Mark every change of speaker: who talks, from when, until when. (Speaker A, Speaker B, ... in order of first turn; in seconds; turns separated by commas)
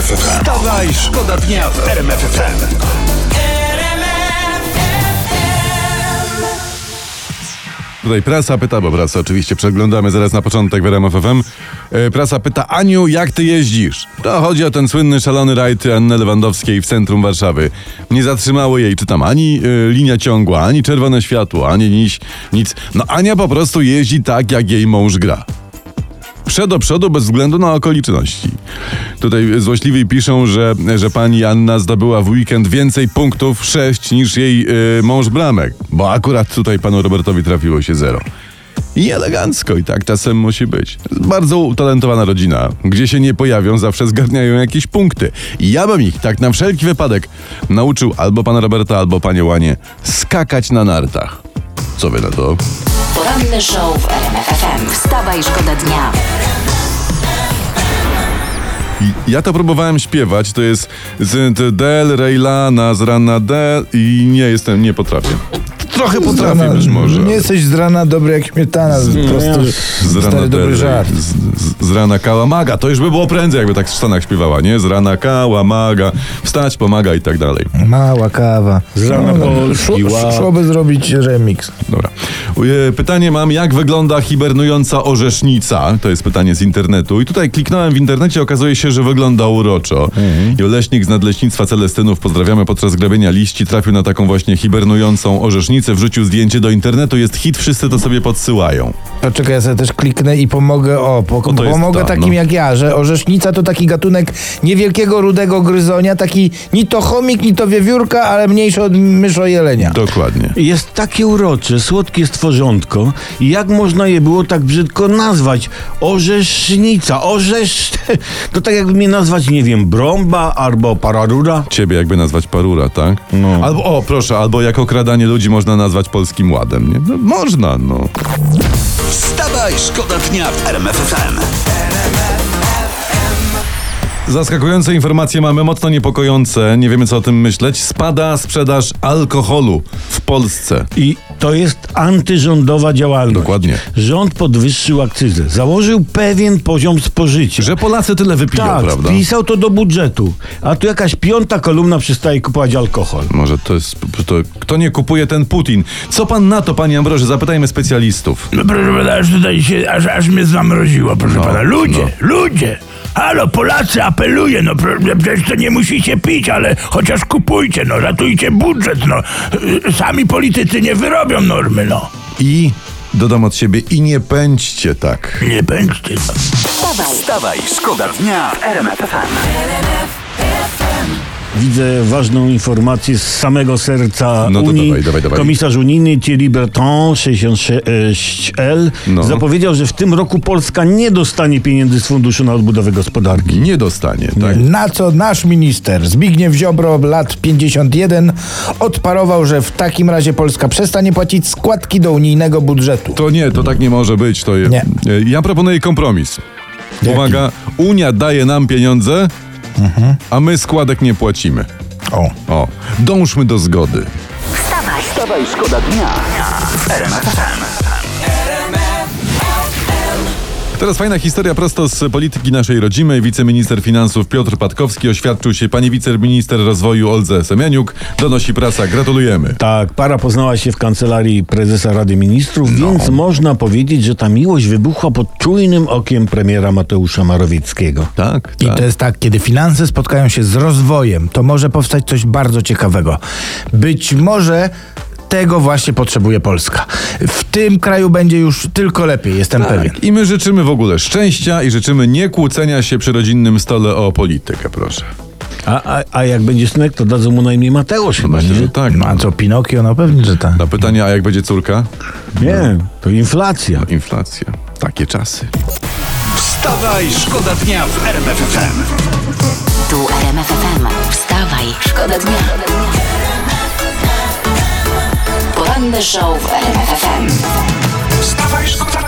Speaker A: 0.5-2.6, Speaker B: 8.0-25.4, Speaker B: 26.4-28.6, Speaker B: 29.2-38.2, Speaker B: 38.9-51.4, Speaker B: 52.0-52.6, Speaker C: 53.1-56.2, Speaker B: 59.0-65.4, Speaker D: 65.8-71.2, Speaker B: 66.1-67.5, Speaker B: 68.9-77.7, Speaker E: 69.1-70.0, Speaker D: 77.8-81.7, Speaker E: 78.9-80.5, Speaker B: 81.9-99.0, Speaker D: 99.2-110.0, Speaker B: 101.4-102.4, Speaker B: 109.8-110.6, Speaker E: 110.5-121.7, Speaker B: 121.7-128.1, Speaker E: 123.3-123.7, Speaker A: 129.1-131.4, Speaker B: 134.2-140.9, Speaker E: 140.9-147.8, Speaker B: 143.3-143.8, Speaker B: 147.6-149.2, Speaker E: 148.5-153.3, Speaker B: 153.3-158.5, Speaker F: 158.6-172.1, Speaker B: 161.2-162.2, Speaker D: 163.5-164.0, Speaker D: 164.8-165.7, Speaker D: 168.2-168.5, Speaker D: 170.8-171.7, Speaker B: 172.4-175.5, Speaker F: 175.6-176.3, Speaker C: 176.8-177.3, Speaker A: 177.3-179.4, Speaker E: 181.5-193.6, Speaker B: 184.4-185.6, Speaker B: 189.1-189.4, Speaker B: 193.4-194.6, Speaker E: 194.3-194.6, Speaker D: 194.6-203.2, Speaker B: 203.1-206.4, Speaker B: 207.0-209.3, Speaker D: 207.0-207.4, Speaker D: 209.8-210.2, Speaker B: 210.3-211.7, Speaker B: 212.5-214.1, Speaker C: 214.6-215.2, Speaker A: 215.3-216.2, Speaker A: 216.8-217.6, Speaker B: 220.8-229.6, Speaker E: 229.6-238.1, Speaker B: 232.6-233.2, Speaker B: 238.2-238.8, Speaker D: 238.6-243.2, Speaker D: 243.7-244.7, Speaker D: 245.3-250.0, Speaker B: 249.6-255.1, Speaker E: 255.6-258.7, Speaker B: 258.2-259.3, Speaker D: 258.9-260.6, Speaker B: 260.5-262.7, Speaker E: 262.4-263.9, Speaker B: 263.8-265.5, Speaker A: 266.4-268.8, Speaker C: 269.8-272.9, Speaker C: 275.5-277.4